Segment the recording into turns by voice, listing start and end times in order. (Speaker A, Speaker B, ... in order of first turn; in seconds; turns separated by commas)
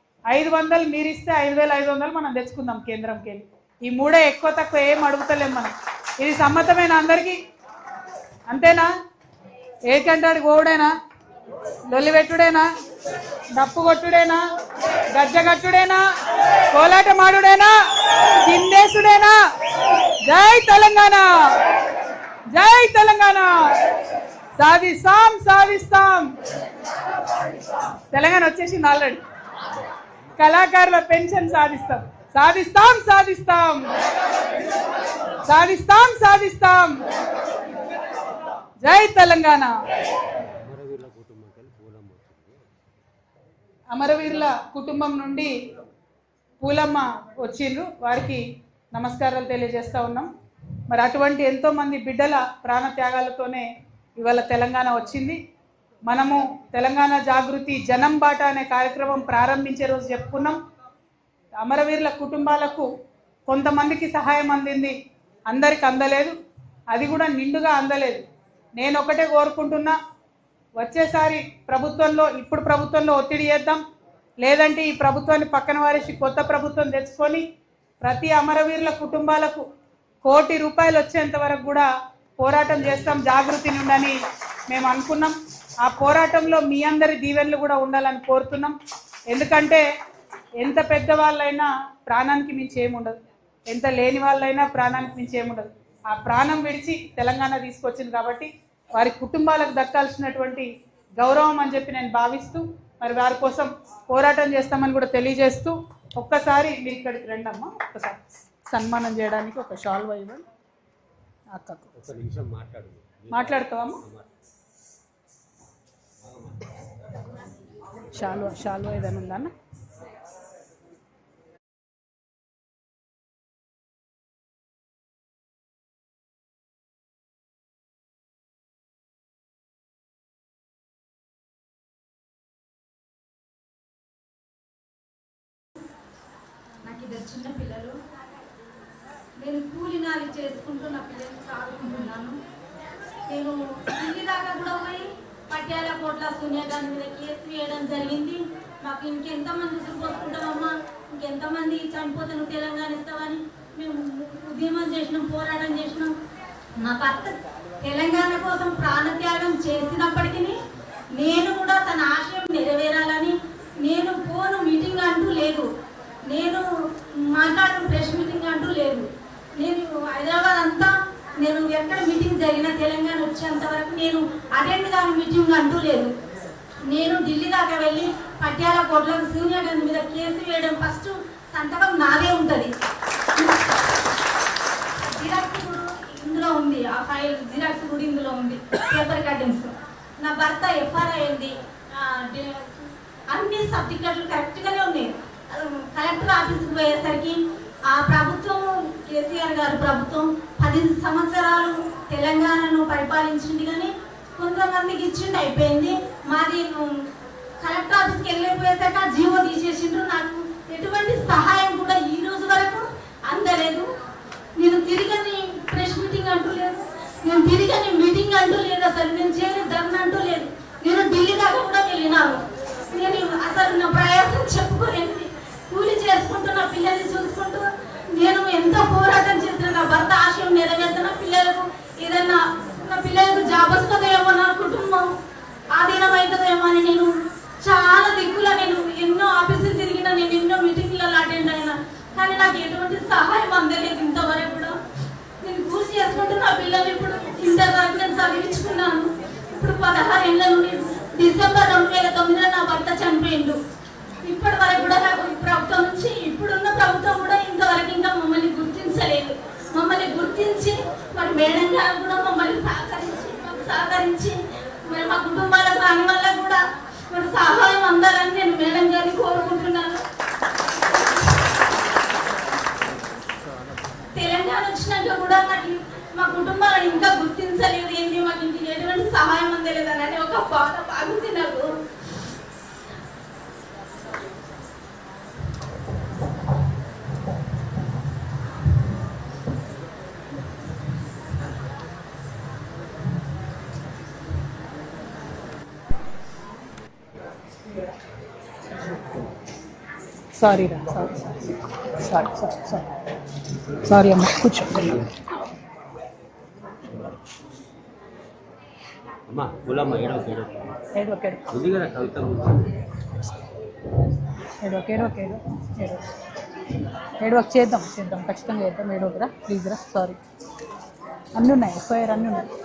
Speaker A: 0.3-7.3, Speaker A: 8.5-8.9, Speaker A: 9.9-10.9, Speaker A: 11.9-12.7, Speaker A: 13.6-14.4, Speaker A: 15.1-16.0, Speaker A: 16.7-17.7, Speaker A: 18.4-19.3, Speaker A: 20.2-21.2, Speaker A: 22.5-23.5, Speaker A: 24.6-26.3, Speaker A: 28.1-29.2, Speaker A: 30.4-33.9, Speaker A: 35.4-37.0, Speaker A: 38.8-39.7, Speaker B: 40.6-42.7, Speaker A: 43.9-45.5, Speaker A: 46.6-48.4, Speaker A: 48.9-50.3, Speaker A: 50.9-53.6, Speaker A: 54.2-55.4, Speaker A: 56.1-60.6, Speaker A: 61.6-62.9, Speaker A: 63.5-64.9, Speaker A: 65.5-66.3, Speaker A: 66.9-68.2, Speaker A: 68.8-70.0, Speaker A: 70.8-73.8, Speaker A: 74.4-77.4, Speaker A: 78.0-79.6, Speaker A: 80.2-81.9, Speaker A: 82.4-84.2, Speaker A: 84.7-88.8, Speaker A: 89.3-89.8, Speaker A: 90.6-93.2, Speaker A: 93.7-100.7, Speaker A: 101.2-110.4, Speaker A: 111.5-111.9, Speaker B: 112.0-114.3, Speaker A: 113.3-114.0, Speaker B: 116.2-116.7, Speaker A: 118.1-119.5, Speaker C: 136.8-138.0, Speaker C: 139.4-142.3, Speaker C: 143.3-156.1, Speaker C: 156.8-160.5, Speaker C: 161.2-165.7, Speaker C: 166.3-166.6, Speaker C: 167.3-169.1, Speaker C: 169.6-176.1, Speaker C: 176.9-182.7, Speaker C: 183.4-183.7, Speaker C: 185.0-192.7, Speaker C: 193.3-197.4, Speaker C: 197.9-206.9, Speaker C: 207.6-213.9, Speaker C: 214.6-222.4, Speaker C: 222.9-235.1, Speaker C: 235.8-237.1, Speaker C: 237.6-244.7, Speaker C: 245.4-253.6, Speaker C: 254.2-266.6, Speaker C: 267.1-270.0, Speaker C: 274.1-281.7, Speaker A: 300.3-303.0, Speaker A: 303.8-305.0, Speaker B: 309.3-310.6, Speaker A: 310.9-311.4, Speaker B: 311.5-312.8, Speaker A: 314.6-316.0, Speaker A: 317.2-320.2, Speaker A: 321.4-322.5